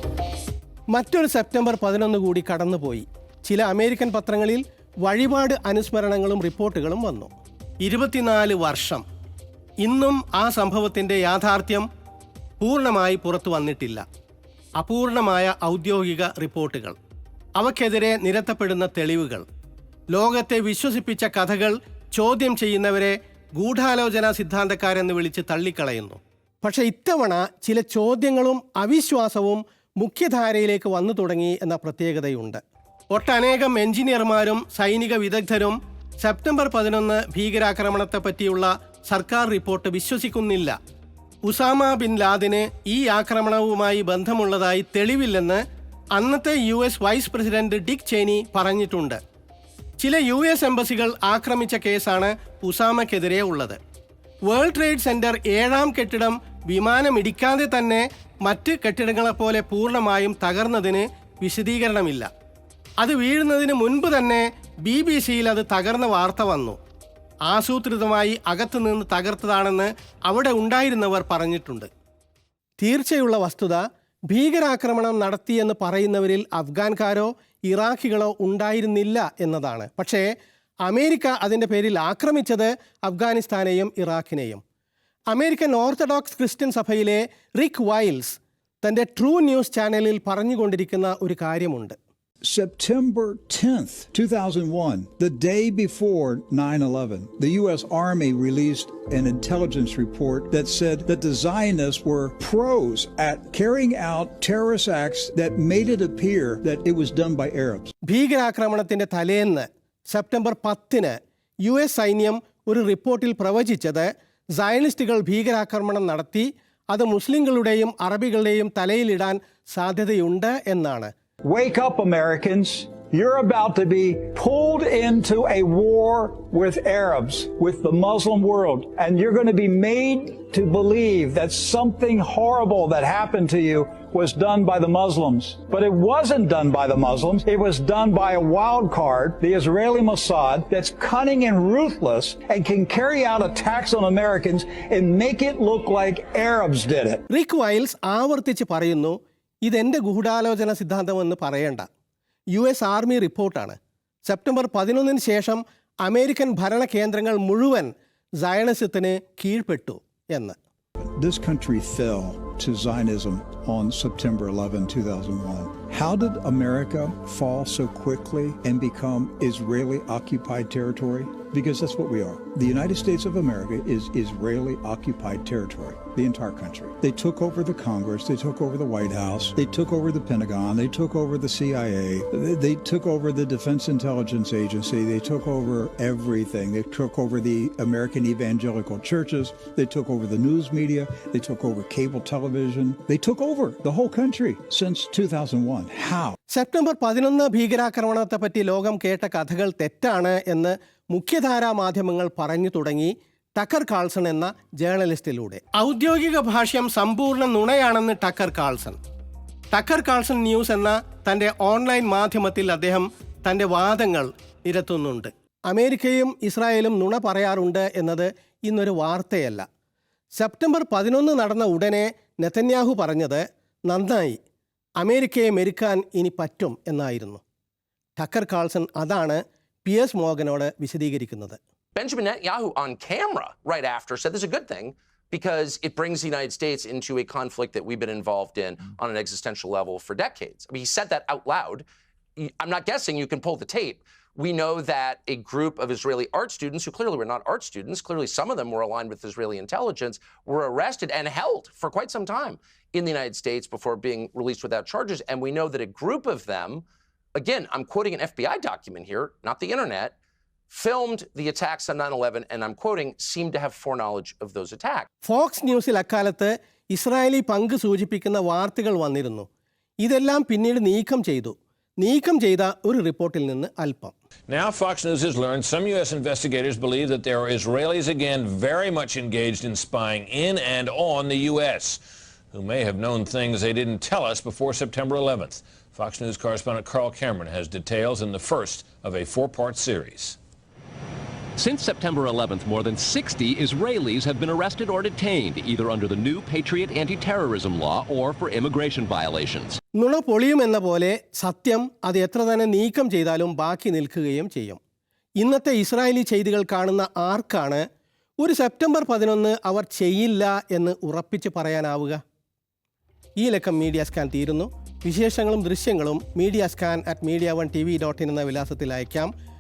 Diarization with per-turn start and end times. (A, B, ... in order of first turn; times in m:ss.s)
0:00.9-0:07.3 A
0:07.8-0:09.0 A
0:09.8-0:11.9 A
0:12.6-0:14.0 A
0:14.8-0:17.0 A
0:17.6-0:19.4 A
0:20.1-0:32.6 A
0:33.1-0:40.8 A
0:41.5-0:45.6 A
0:46.2-0:49.2 A
0:50.0-0:53.8 A
0:54.5-1:02.3 A
1:03.0-1:06.8 A
1:07.5-1:11.9 A
1:12.8-1:20.2 A
1:20.9-1:24.6 A
1:25.3-1:32.0 A
1:32.4-1:47.9 B
1:48.1-2:01.1 A
2:01.5-2:27.2 B
2:27.3-2:31.9 A
2:32.5-2:33.8 A
2:34.3-2:40.6 A
2:41.0-3:16.4 B
3:16.5-3:29.0 A
3:29.7-3:39.7 A
3:40.4-3:44.4 A
3:45.0-3:47.4 A
3:48.2-3:51.6 A
3:52.0-4:01.8 C
4:02.4-4:20.1 C
4:20.7-4:25.1 C
4:25.2-4:29.5 A
4:30.0-4:34.1 A
4:34.5-4:42.0 D
4:42.5-4:50.4 D
4:51.6-4:59.8 E
5:00.0-5:04.8 A
5:05.4-5:07.8 A
5:08.4-5:12.2 A
5:13.4-5:19.3 A